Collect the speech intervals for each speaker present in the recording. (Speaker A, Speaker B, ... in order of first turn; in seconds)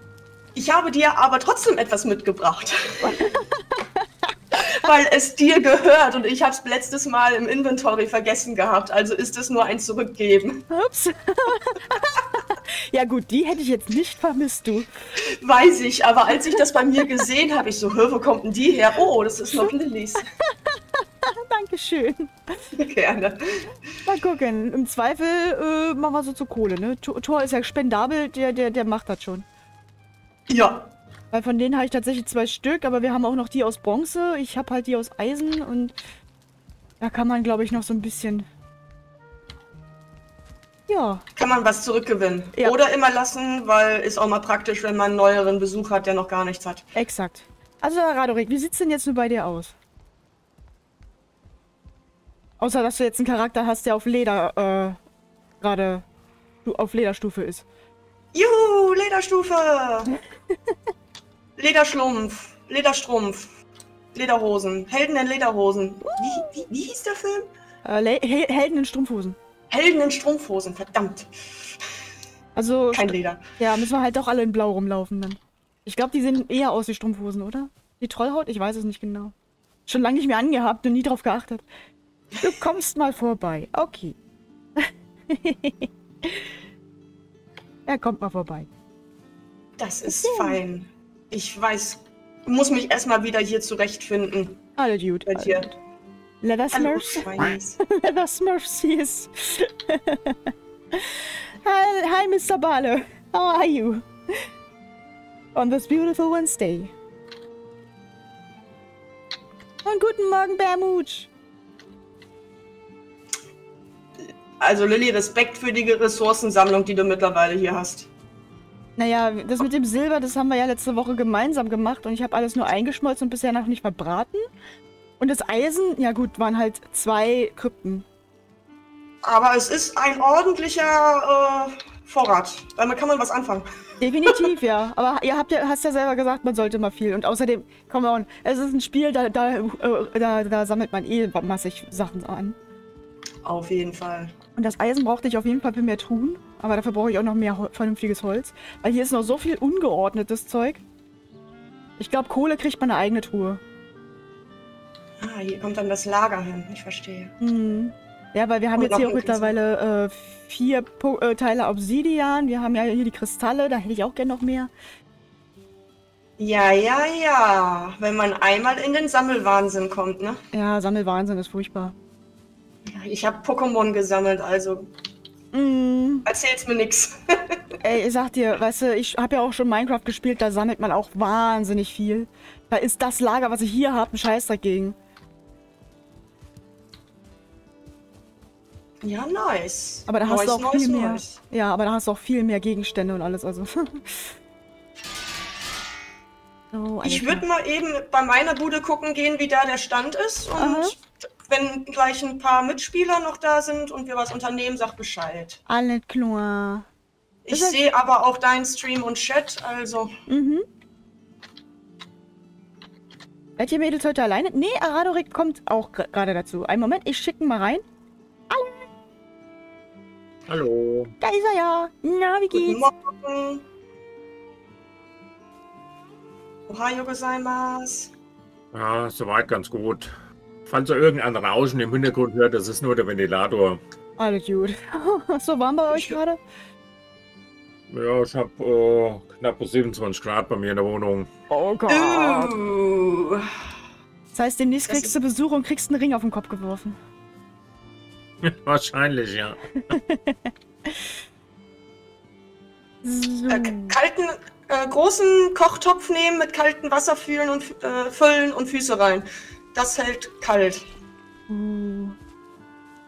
Speaker A: 0.5-3.3, 4.6-10.7, 15.3-20.2, 22.8-23.8, 30.5-30.9, 41.4-46.9, 58.3-60.1, 61.6-63.5, 64.1-67.5, 69.7-71.3, 72.9-73.5, 89.8-94.6, 95.2-95.7, 96.7-97.8, 114.6-118.1, 129.2-133.7, 143.4-144.3, 155.2-157.3, 158.8-159.5, 166.4-170.4, 172.8-174.9, 176.2-177.6, 189.0-191.4, 197.0-205.6, 207.4-210.1, 222.5-223.6, 226.7-228.1, 235.9-236.2, 241.9-243.5, 244.9-245.1, 253.5-260.8
Speaker B: 3.0-4.0, 10.7-14.9, 19.5-19.7, 20.4-22.7, 24.0-29.4, 31.3-35.9, 37.0-38.5, 40.9-41.2, 46.9-49.7, 52.6-55.0, 55.6-56.0, 56.6-57.6, 66.0-66.7, 67.8-69.4, 72.5-79.3, 79.9-81.7, 82.4-84.2, 84.8-86.5, 87.9-88.7, 90.1-90.6, 94.8-95.7, 96.4-104.5, 105.5-106.9, 109.8-111.3, 119.0-124.4, 125.2-128.0, 134.0-142.6, 144.6-150.8, 152.0-153.6, 157.4-164.7, 170.5-171.9, 175.5-176.3, 177.8-184.9, 190.1-194.3, 196.7-197.4, 200.6-200.9, 205.7-206.8, 207.5-207.8, 210.3-210.7, 213.6-217.8, 218.5-218.8, 221.2-222.8, 234.2-236.4, 241.5-242.6, 244.3-247.0, 249.8-251.1, 253.0-254.0, 261.5-262.2
Speaker C: 220.5-221.1, 228.7-230.1, 230.7-233.8, 237.9-241.3, 248.4-249.9